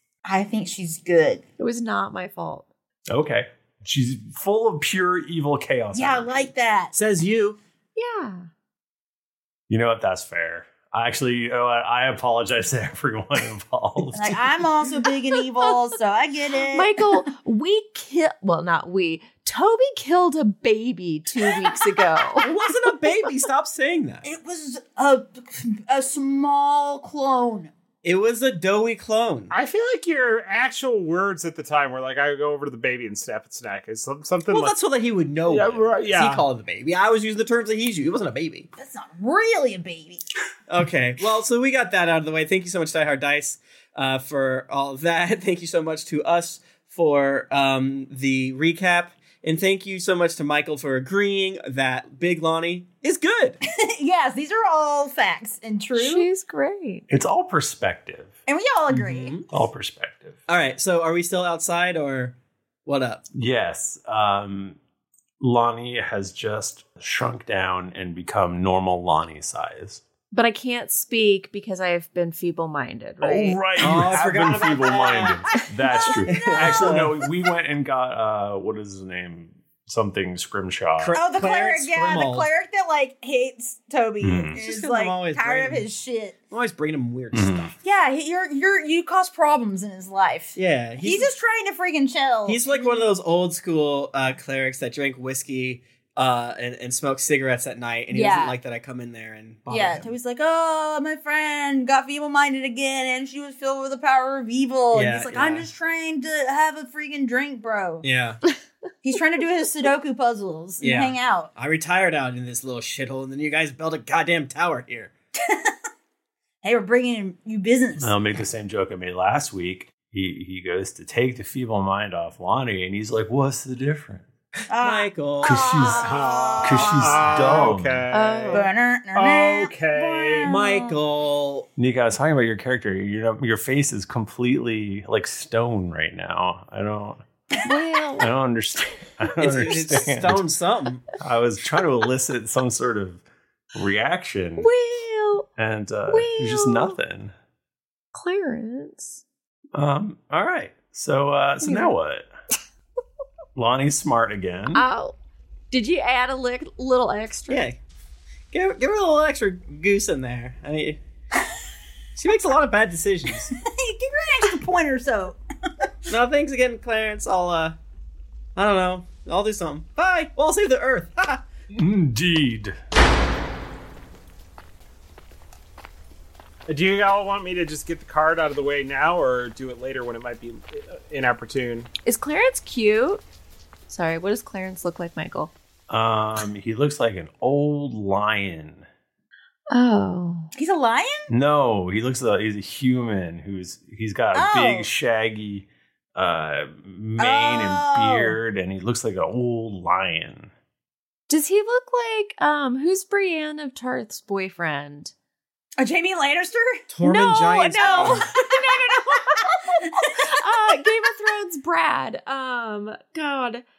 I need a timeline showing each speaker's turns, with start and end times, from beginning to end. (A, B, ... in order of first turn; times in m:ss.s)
0:00.2-0:01.4 A
0:01.6-0:02.7 B
0:03.1-0:06.5 C
0:05.9-0:06.9 A
0:06.9-0:07.6 D
0:08.0-0:08.5 B
0:09.7-0:14.6 C
0:14.1-0:17.2 A
0:15.6-0:15.8 B
0:16.7-0:22.5 B
0:21.4-0:22.0 A
0:22.4-0:24.2 D
0:24.2-0:27.7 A
0:28.0-0:29.5 D
0:29.5-0:34.8 E
0:34.5-0:38.7 D
0:35.5-0:36.4 E
0:38.8-0:40.2 A
0:40.7-0:53.6 D
0:53.6-0:56.3 A
0:56.0-0:57.1 B
0:57.1-0:58.4 C
0:58.5-0:59.4 A
0:58.9-0:59.5 D
0:59.5-1:00.4 C
1:00.5-1:02.4 D
1:02.9-1:03.2 D
1:03.3-1:04.8 C
1:05.4-1:10.0 C
1:10.3-1:13.6 B
1:13.2-1:21.2 C
1:13.8-1:15.4 D
1:15.9-1:17.0 A
1:16.2-1:17.2 D
1:21.0-1:22.5 D
1:21.1-1:26.4 A
1:24.2-1:24.6 C
1:24.6-1:25.8 D
1:26.5-1:27.7 D
1:27.3-1:27.7 C
1:27.8-1:33.1 A
1:30.6-1:31.4 D
1:32.5-1:40.1 D
1:38.1-1:38.6 A
1:39.7-1:48.0 A
1:44.9-1:45.7 D
1:48.0-1:48.4 D
1:49.0-1:51.5 A
1:50.8-1:55.1 D
1:55.4-1:55.8 A
1:56.6-1:58.2 A
1:58.0-2:04.3 C
2:04.7-2:07.7 A
2:04.8-2:05.7 D
2:05.4-2:08.1 C
2:06.0-2:10.5 E
2:08.1-2:08.7 B
2:08.5-2:11.0 A
2:10.4-2:11.7 D
2:11.8-2:17.2 C
2:17.6-2:18.3 B
2:18.2-2:20.5 C
2:19.4-2:21.0 D
2:21.2-2:23.2 C
2:23.8-2:24.7 C
2:24.6-2:25.5 B
2:25.6-2:27.3 C
2:26.1-2:27.0 B
2:28.1-2:29.2 B
2:29.7-2:32.3 C
2:31.6-2:31.9 B
2:33.6-2:34.8 C
2:34.7-2:35.2 B
2:35.7-2:37.7 B
2:37.5-2:37.8 D
2:38.5-2:41.0 D
2:42.2-2:43.5 D
2:43.5-2:45.9 A
2:46.1-2:47.8 D
2:48.6-2:51.4 D
2:51.7-2:52.8 C
2:56.7-3:01.9 E
3:02.0-3:03.2 B
3:03.9-3:05.5 B
3:05.9-3:08.9 C
3:09.7-3:10.5 B
3:10.5-3:11.3 A
3:11.3-3:20.5 C
3:14.3-3:14.9 A
3:17.2-3:18.4 A
3:21.3-3:25.1 B
3:25.8-3:31.0 A
3:26.9-3:28.2 D
3:27.0-3:33.6 B